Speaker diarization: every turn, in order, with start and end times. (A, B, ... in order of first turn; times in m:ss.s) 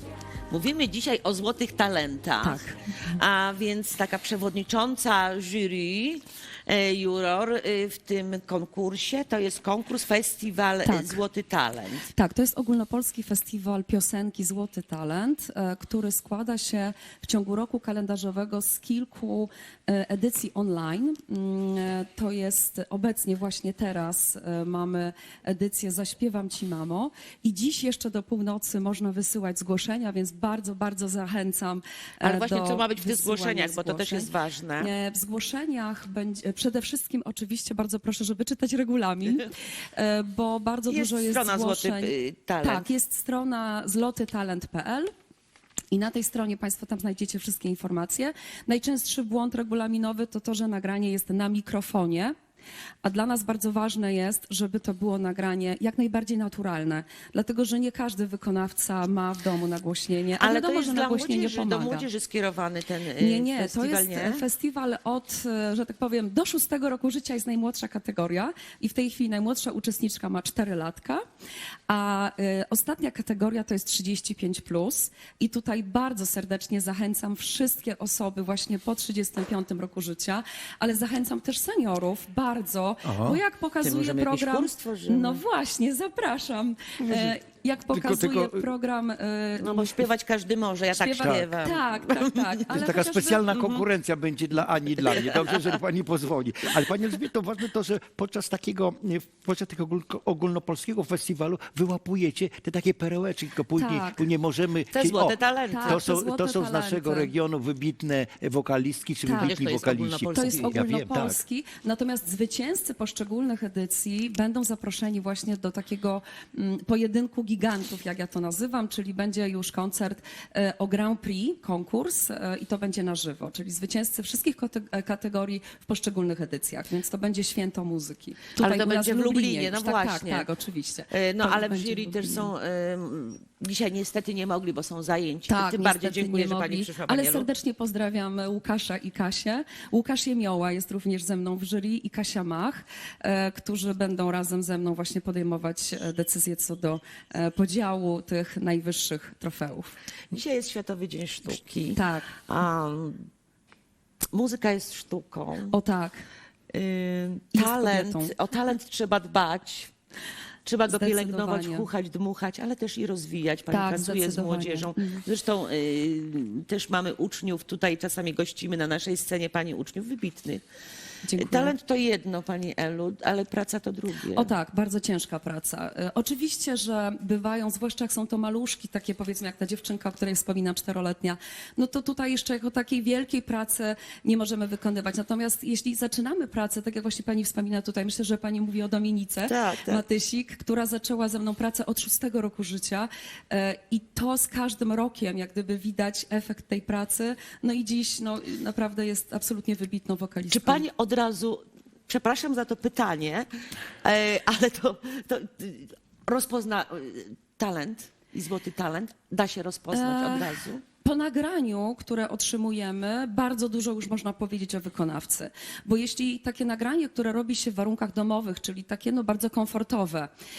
0:00.5-0:12.1 A
0:02.4-0:03.0 B
0:10.8-0:11.2 B
0:12.1-0:42.1 B
0:32.2-0:34.9 A
0:40.9-0:42.9 A
0:42.6-0:45.1 B
0:45.9-0:52.3 B
0:53.0-1:02.1 B
1:00.4-1:04.4 A
1:03.2-1:11.2 B
1:11.9-1:30.0 B
1:23.0-1:23.4 C
1:23.8-1:25.4 A
1:27.0-1:27.4 C
1:27.9-1:28.7 C
1:29.6-1:32.4 A
1:30.9-1:33.8 B
1:31.2-1:31.5 C
1:32.7-1:51.4 C
1:35.0-1:35.8 A
1:43.8-1:44.3 B
1:44.9-1:46.1 A
1:45.7-1:47.3 B
1:49.2-1:49.6 B
1:49.4-1:50.8 A
1:50.3-2:12.5 B
2:08.6-2:10.5 A
2:11.1-2:17.5 A
2:15.5-2:29.9 B
2:30.3-2:33.3 A
2:31.9-2:32.3 B
2:34.3-2:35.8 A
2:35.7-2:36.2 B
2:36.7-2:39.9 A
2:37.6-2:38.4 B
2:40.6-2:50.6 A
2:40.9-2:41.9 B
2:43.7-2:45.2 B
2:51.2-2:51.7 B
2:51.4-2:54.5 A
2:54.3-3:20.9 B
3:09.5-3:10.0 A
3:20.5-3:23.5 A
3:24.0-3:30.8 A
3:29.9-3:40.3 B